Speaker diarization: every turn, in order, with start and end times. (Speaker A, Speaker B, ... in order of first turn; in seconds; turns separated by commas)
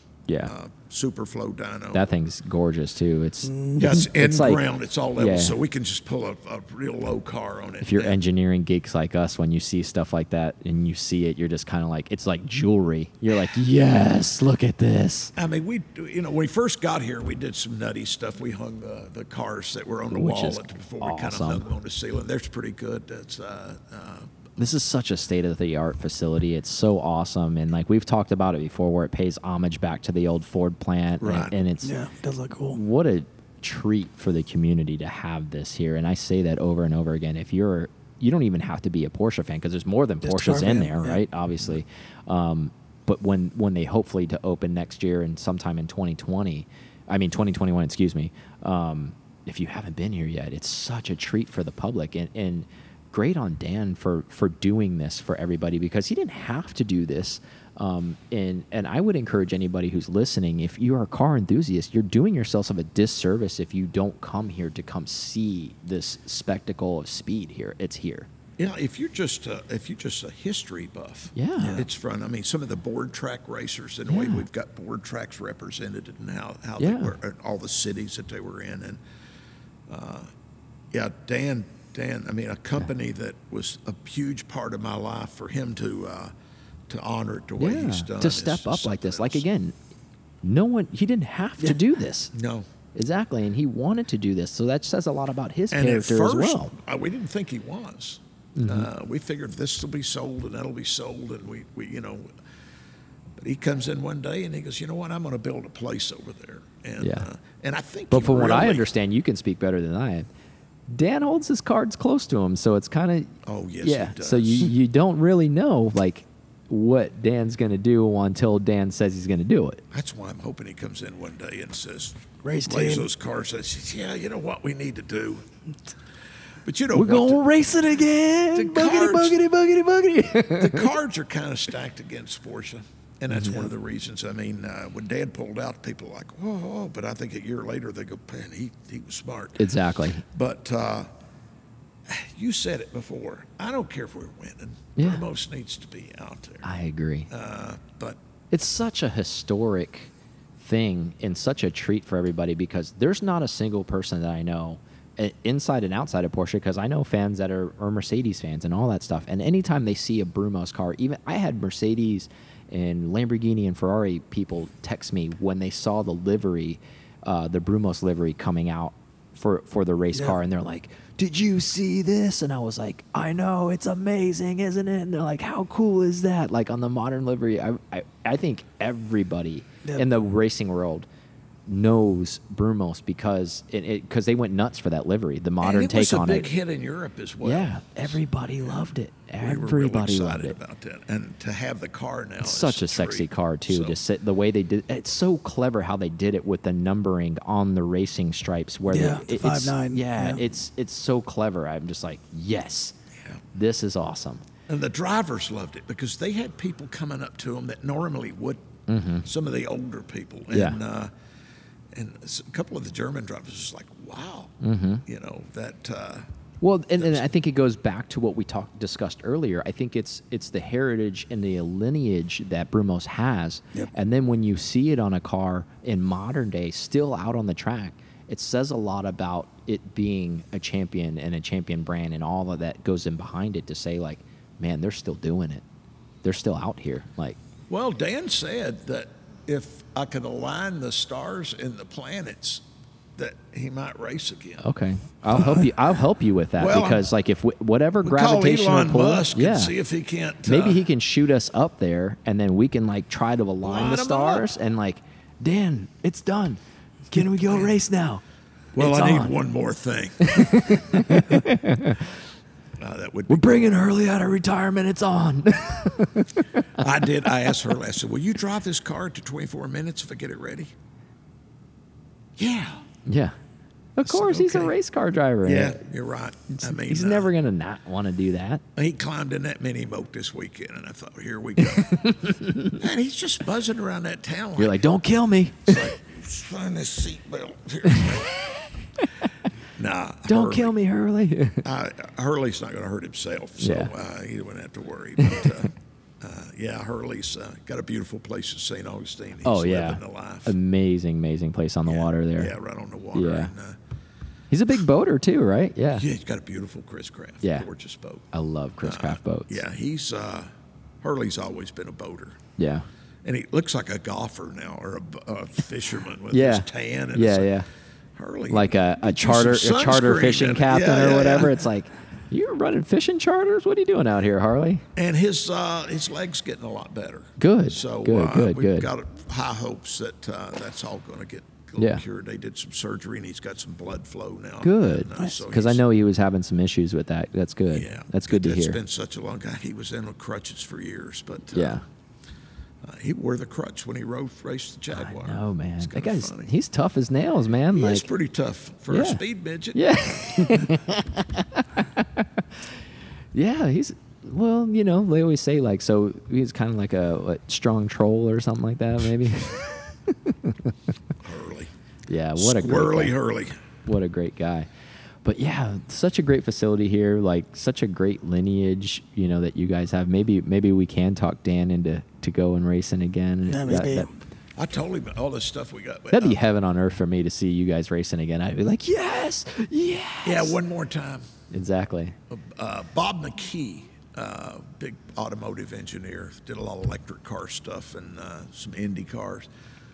Speaker A: 0.3-0.5, Speaker B: 0.5-2.0, Speaker A: 1.9-4.6, Speaker C: 3.5-3.9, Speaker B: 3.8-8.2, Speaker A: 5.2-5.5, Speaker A: 7.8-15.3, Speaker B: 15.3-24.3, Speaker A: 20.1-21.7, Speaker A: 24.6-31.9, Speaker B: 31.2-31.5, Speaker C: 31.8-32.8, Speaker A: 32.7-68.3, Speaker C: 40.2-41.2, Speaker B: 68.6-79.0, Speaker A: 71.3-71.8, Speaker C: 71.6-71.8, Speaker A: 74.1-74.4, Speaker A: 76.8-77.1, Speaker B: 79.9-80.3, Speaker B: 80.9-86.3, Speaker B: 86.9-89.4, Speaker A: 87.6-89.7, Speaker A: 90.4-92.3, Speaker B: 92.3-92.7, Speaker A: 92.9-96.7, Speaker B: 95.7-102.3, Speaker A: 98.5-98.9, Speaker B: 103.4-108.9, Speaker A: 107.0-107.3, Speaker A: 108.1-110.3, Speaker A: 110.9-119.8, Speaker B: 113.4-114.7, Speaker B: 119.9-125.4, Speaker C: 122.4-123.1, Speaker B: 126.6-127.4, Speaker A: 126.9-130.9, Speaker B: 128.5-129.4, Speaker B: 130.4-141.1, Speaker A: 133.3-133.7, Speaker A: 139.6-140.2, Speaker B: 142.1-146.7, Speaker A: 144.9-145.2, Speaker A: 146.6-147.3, Speaker B: 147.3-148.2, Speaker A: 148.5-181.1, Speaker A: 181.7-186.5, Speaker B: 185.6-188.9, Speaker A: 187.4-190.6, Speaker B: 189.4-194.0, Speaker A: 192.4-202.9, Speaker C: 198.9-200.4, Speaker A: 203.5-204.4, Speaker B: 204.7-208.6, Speaker A: 208.9-209.2, Speaker B: 209.2-211.1, Speaker A: 210.5-210.8, Speaker B: 211.9-214.5, Speaker A: 214.6-215.0, Speaker B: 215.1-216.3, Speaker A: 216.6-235.6, Speaker B: 217.0-217.3, Speaker A: 236.2-237.4, Speaker B: 237.7-242.6, Speaker B: 243.2-244.6, Speaker A: 244.6-249.7, Speaker B: 245.3-245.7, Speaker B: 246.6-247.1, Speaker B: 248.0-250.8, Speaker A: 250.4-258.2, Speaker B: 253.6-254.5, Speaker B: 257.4-257.7, Speaker B: 258.8-261.4, Speaker A: 258.8-259.3, Speaker A: 260.2-262.1, Speaker B: 262.8-263.9, Speaker A: 263.3-266.9, Speaker B: 266.7-270.7, Speaker B: 272.4-272.8, Speaker A: 273.1-273.3, Speaker A: 274.0-275.8, Speaker B: 274.0-274.8, Speaker B: 275.4-277.3, Speaker A: 276.5-278.6, Speaker B: 278.8-284.8, Speaker A: 281.7-282.8, Speaker A: 284.6-285.9, Speaker B: 285.6-288.6, Speaker A: 287.9-288.2, Speaker B: 289.7-290.7, Speaker A: 290.3-291.6, Speaker B: 291.6-300.6, Speaker A: 293.6-293.9, Speaker A: 299.4-302.5, Speaker B: 301.8-303.8, Speaker A: 303.1-303.5, Speaker A: 304.5-306.0, Speaker B: 305.9-308.3, Speaker A: 307.4-307.7, Speaker A: 308.3-309.6, Speaker B: 308.8-310.5, Speaker B: 311.0-312.4, Speaker A: 312.6-312.9, Speaker B: 313.2-317.5, Speaker A: 316.3-317.7, Speaker B: 318.1-321.6, Speaker A: 318.5-324.8, Speaker B: 324.9-335.8, Speaker A: 327.4-328.9, Speaker A: 331.8-332.0, Speaker A: 334.6-338.8, Speaker B: 337.7-341.8, Speaker A: 341.5-341.8, Speaker B: 342.8-346.5, Speaker A: 344.9-348.1, Speaker B: 347.7-350.7, Speaker A: 348.9-349.2, Speaker A: 349.7-352.4, Speaker A: 353.3-360.7, Speaker B: 361.2-361.7, Speaker A: 362.1-363.1, Speaker B: 362.4-363.6, Speaker A: 363.8-364.7, Speaker A: 365.2-374.1, Speaker C: 373.5-374.1, Speaker B: 374.6-376.4, Speaker A: 376.1-380.6, Speaker B: 380.2-381.3, Speaker A: 381.5-382.2, Speaker B: 382.3-389.5